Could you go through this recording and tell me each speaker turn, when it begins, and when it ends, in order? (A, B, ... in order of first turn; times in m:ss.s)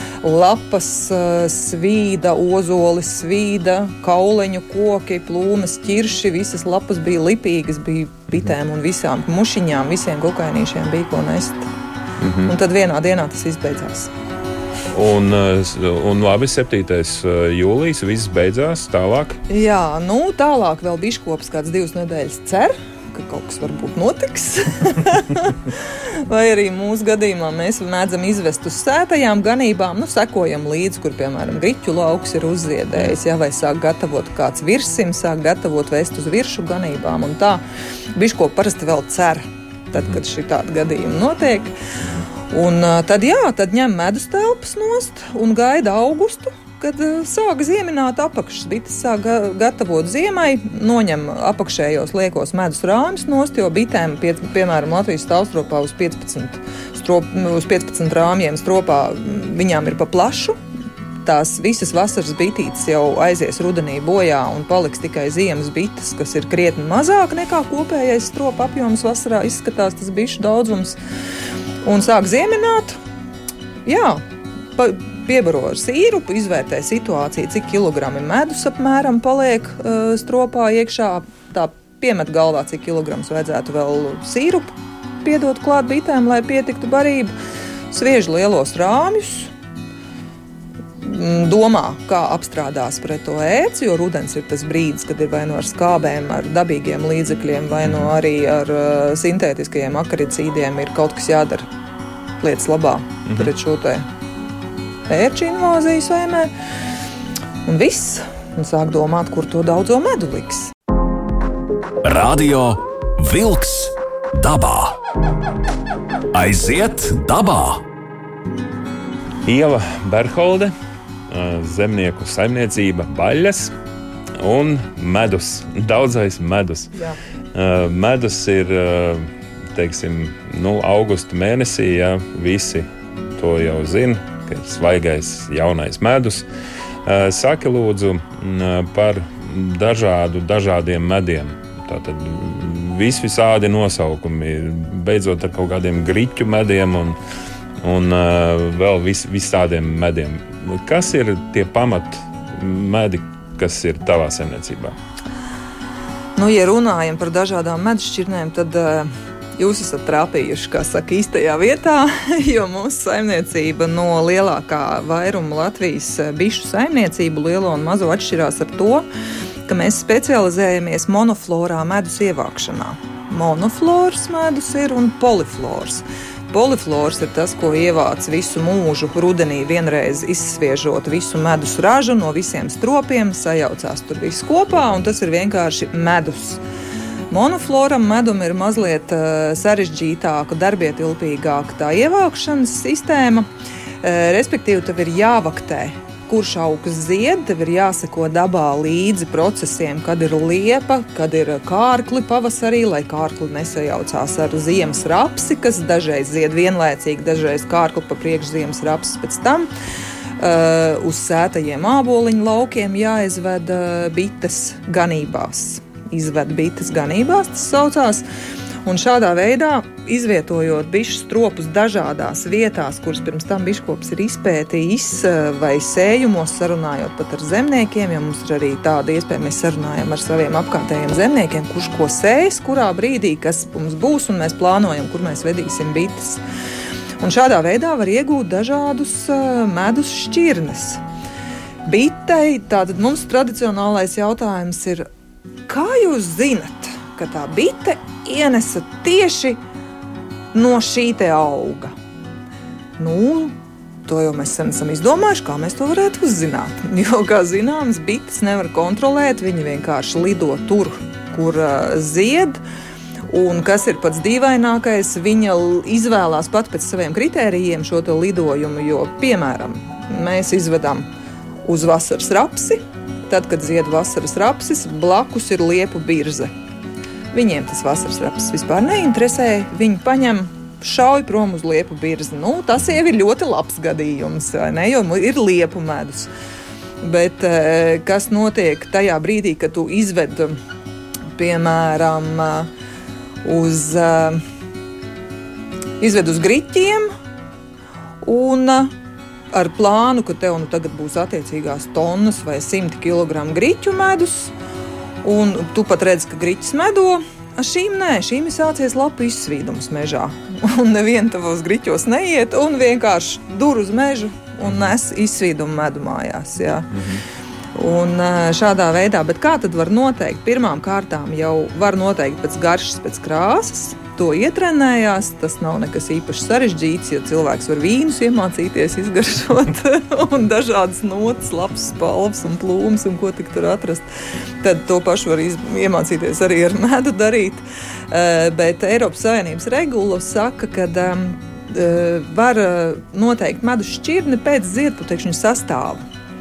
0:00.2-0:11.7 A
0:12.2-0:12.5 B
0:12.4-0:14.1 A
0:14.9-0:19.4 B
0:19.5-0:37.6 A
0:38.2-0:41.7 A
0:42.5-1:00.6 A
1:01.2-1:11.0 A
1:11.8-1:13.0 A
1:13.9-1:14.2 A
1:14.8-1:27.3 A
1:27.9-1:29.5 A
1:31.0-1:41.7 A
1:37.8-1:38.1 B
1:42.4-1:44.1 A
1:43.3-1:43.5 B
1:45.1-1:46.5 A
1:47.6-1:50.7 A
1:52.0-1:55.0 C
1:56.3-1:57.8 C
1:59.4-2:00.7 B
2:01.3-2:03.8 B
2:04.4-2:06.9 B
2:07.5-2:16.4 B
2:17.0-2:27.2 B
2:27.8-2:35.0 B
2:36.4-2:49.0 A
2:49.7-3:06.6 A
3:07.3-3:13.5 A
3:14.0-3:29.7 A
3:30.4-3:38.2 A
3:38.8-3:56.4 A
3:57.2-4:01.0 A
4:01.8-4:05.1 A
4:05.7-4:09.6 A
4:10.5-4:11.9 A
4:13.0-4:22.6 A
4:23.3-4:31.1 A
4:31.6-4:36.5 A
4:37.3-4:46.3 A
4:47.0-4:50.6 A
4:51.4-4:52.7 A
4:53.4-4:54.4 A
4:56.0-4:57.1 A
4:58.2-4:58.9 A
4:59.5-5:04.5 A
5:05.2-5:16.9 A
5:14.6-5:14.9 B
5:16.9-5:17.2 B
5:17.8-5:34.0 A
5:34.6-5:46.0 A